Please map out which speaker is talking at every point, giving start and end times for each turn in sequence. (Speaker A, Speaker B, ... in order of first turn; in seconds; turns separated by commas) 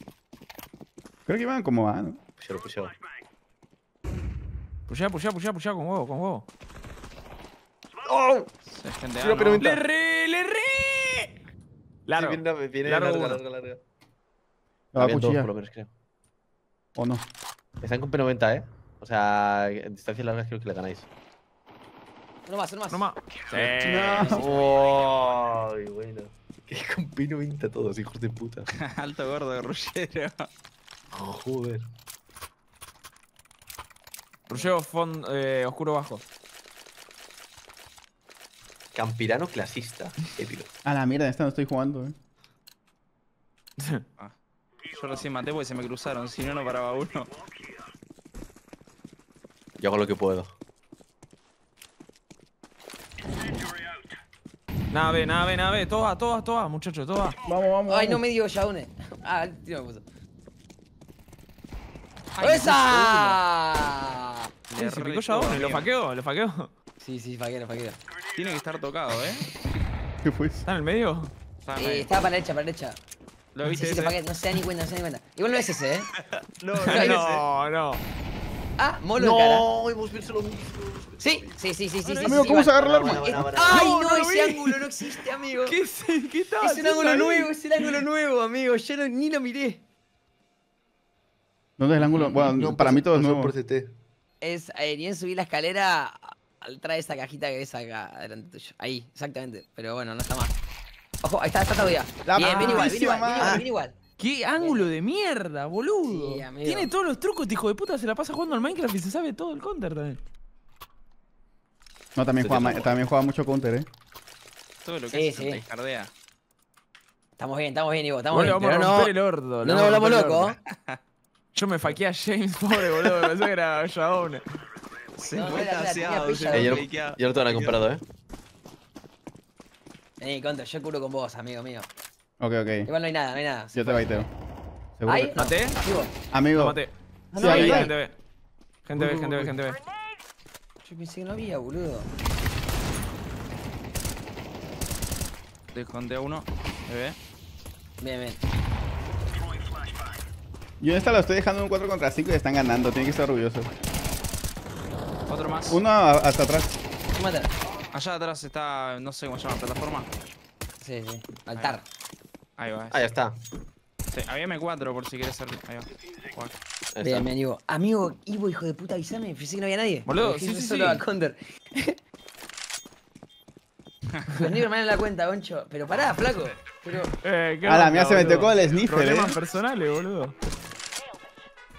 Speaker A: 1.3-2.2, Speaker B: 2.4-3.0, Speaker C: 4.9-6.5, Speaker B: 8.0-8.5, Speaker D: 8.7-9.6, Speaker B: 9.2-9.8, Speaker C: 9.6-11.3, Speaker C: 12.1-13.4, Speaker B: 12.1-13.8, Speaker A: 14.9-15.5, Speaker B: 14.9-15.9, Speaker A: 16.9-17.2, Speaker B: 17.8-21.1, Speaker E: 22.5-23.1, Speaker C: 22.9-24.4, Speaker A: 23.8-24.5, Speaker D: 23.9-24.3, Speaker B: 24.4-28.7, Speaker D: 28.7-30.5, Speaker B: 31.1-31.8, Speaker C: 34.5-36.2, Speaker B: 38.9-40.7, Speaker A: 40.8-42.1, Speaker D: 44.9-47.3, Speaker B: 49.8-50.5, Speaker C: 54.9-57.4, Speaker A: 57.4-58.2, Speaker E: 57.9-60.0, Speaker D: 62.4-63.4, Speaker E: 62.4-64.5, Speaker D: 64.7-65.8, Speaker C: 64.8-66.7, Speaker E: 67.0-68.0, Speaker D: 68.4-69.4, Speaker A: 70.2-70.6, Speaker C: 70.7-71.3, Speaker D: 71.7-72.1, Speaker E: 71.8-73.0, Speaker D: 73.5-74.2, Speaker E: 73.6-76.1, Speaker D: 76.4-77.4, Speaker E: 76.9-77.3, Speaker C: 76.9-78.0, Speaker E: 78.8-79.6, Speaker B: 79.2-81.5, Speaker E: 81.2-85.8, Speaker A: 82.2-83.5, Speaker B: 82.8-83.9, Speaker C: 83.7-84.8, Speaker C: 85.7-87.9, Speaker E: 86.6-89.8, Speaker A: 91.8-93.5, Speaker B: 92.3-93.9, Speaker E: 94.4-100.5, Speaker E: 101.2-104.0, Speaker A: 102.2-103.6, Speaker C: 102.4-102.8, Speaker B: 103.4-103.6, Speaker C: 104.2-110.2, Speaker E: 104.6-104.9, Speaker E: 106.1-106.9, Speaker A: 112.1-113.9, Speaker B: 112.4-113.0, Speaker D: 114.8-116.1, Speaker E: 115.1-115.6, Speaker E: 117.4-120.6, Speaker C: 118.3-120.5, Speaker C: 121.5-124.4, Speaker D: 125.2-127.8, Speaker E: 125.3-126.8, Speaker B: 126.5-128.0, Speaker E: 130.2-131.9, Speaker A: 132.4-132.9, Speaker E: 132.8-134.3, Speaker A: 133.7-134.3, Speaker A: 135.0-135.4, Speaker E: 135.1-136.1, Speaker C: 135.3-135.8, Speaker A: 136.3-136.8, Speaker C: 136.5-138.1, Speaker E: 137.3-137.9, Speaker A: 137.3-137.9, Speaker C: 138.8-139.8, Speaker D: 139.0-139.5, Speaker E: 140.8-142.1, Speaker D: 145.7-147.2, Speaker E: 148.0-148.4, Speaker A: 150.8-153.7, Speaker D: 155.3-155.8, Speaker A: 155.7-156.7, Speaker E: 157.1-157.5, Speaker D: 157.9-160.1, Speaker E: 160.8-161.8, Speaker D: 162.6-163.0, Speaker B: 162.9-163.4, Speaker D: 164.1-166.5, Speaker B: 166.9-167.3, Speaker E: 167.0-172.0, Speaker C: 170.1-171.0, Speaker E: 174.3-177.1, Speaker C: 177.2-180.3, Speaker A: 177.6-179.4